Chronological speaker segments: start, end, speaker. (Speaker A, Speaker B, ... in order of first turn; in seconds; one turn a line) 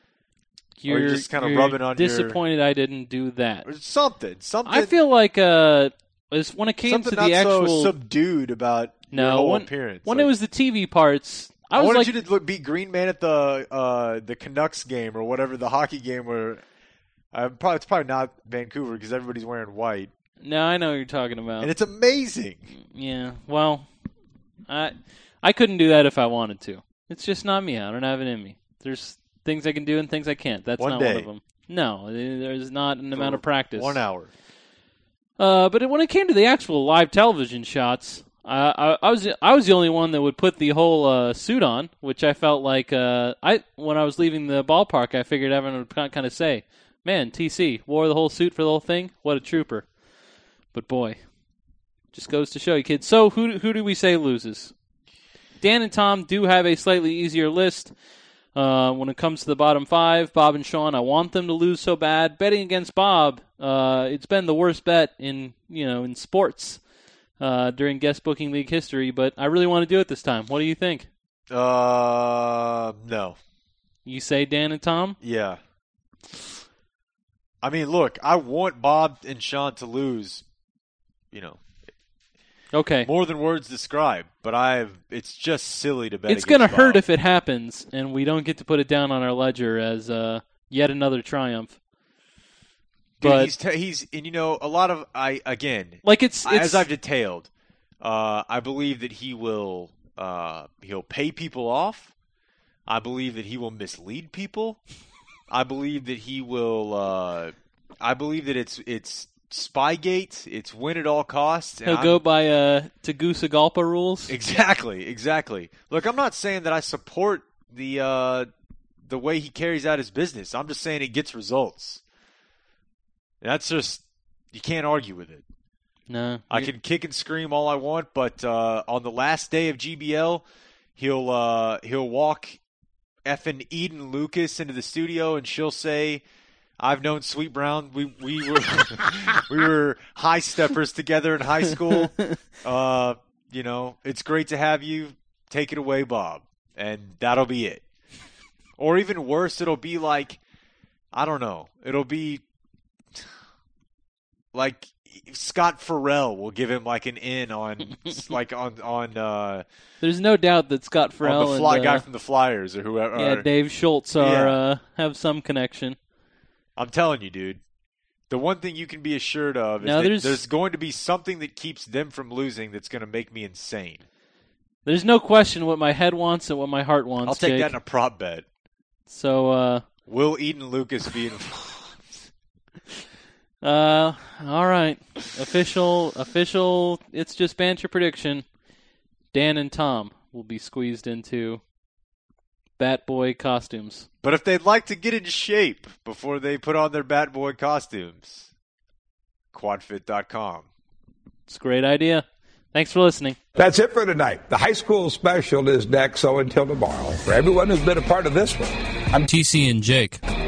Speaker A: 0.8-3.7
Speaker B: 0.9-2.4
Speaker B: 3.6-4.9
Speaker A: 4.6-7.9
Speaker B: 6.8-10.3
Speaker A: 9.1-12.1
Speaker B: 11.7-16.6
Speaker B: 17.3-20.1
Speaker A: 20.4-21.7
Speaker B: 21.6-22.7
Speaker A: 22.7-23.9
Speaker A: 24.7-34.0
Speaker B: 30.8-31.3
Speaker B: 33.1-34.3
Speaker A: 35.4-49.9
Speaker A: 50.7-51.2
Speaker A: 52.1-54.7
Speaker A: 55.6-57.9
Speaker A: 58.5-66.8
Speaker A: 67.4-71.1
Speaker B: 71.5-73.4
Speaker A: 74.0-75.2
Speaker B: 75.2-75.6
Speaker B: 77.6-80.4
Speaker B: 81.3-81.7
Speaker A: 82.7-83.1
Speaker B: 83.0-87.0
Speaker A: 86.3-91.8
Speaker B: 93.2-97.5
Speaker A: 93.2-93.5
Speaker A: 96.0-96.9
Speaker B: 98.0-102.1
Speaker B: 102.8-104.8
Speaker B: 105.5-112.2
Speaker A: 111.8-114.3
Speaker B: 114.3-118.5
Speaker B: 119.0-122.0
Speaker B: 123.4-125.4
Speaker A: 126.1-126.7
Speaker B: 126.5-130.4
Speaker B: 131.0-132.6
Speaker B: 133.2-136.2
Speaker B: 136.8-147.8
Speaker B: 148.8-150.4
Speaker B: 151.1-152.4
Speaker B: 154.5-159.6
Speaker A: 160.0-162.0
Speaker B: 161.2-163.5
Speaker A: 163.2-166.0
Speaker B: 164.2-164.6
Speaker B: 166.8-167.6
Speaker B: 168.3-174.0
Speaker A: 169.8-170.4
Speaker A: 174.8-177.8
Speaker B: 177.2-178.4
Speaker A: 179.1-179.8
Speaker B: 180.1-182.2
Speaker A: 183.6-188.4
Speaker A: 189.3-191.6
Speaker A: 192.8-194.1
Speaker B: 194.2-198.5
Speaker B: 199.5-200.7
Speaker A: 201.5-203.4
Speaker C: 203.6-209.3
Speaker A: 209.3-210.2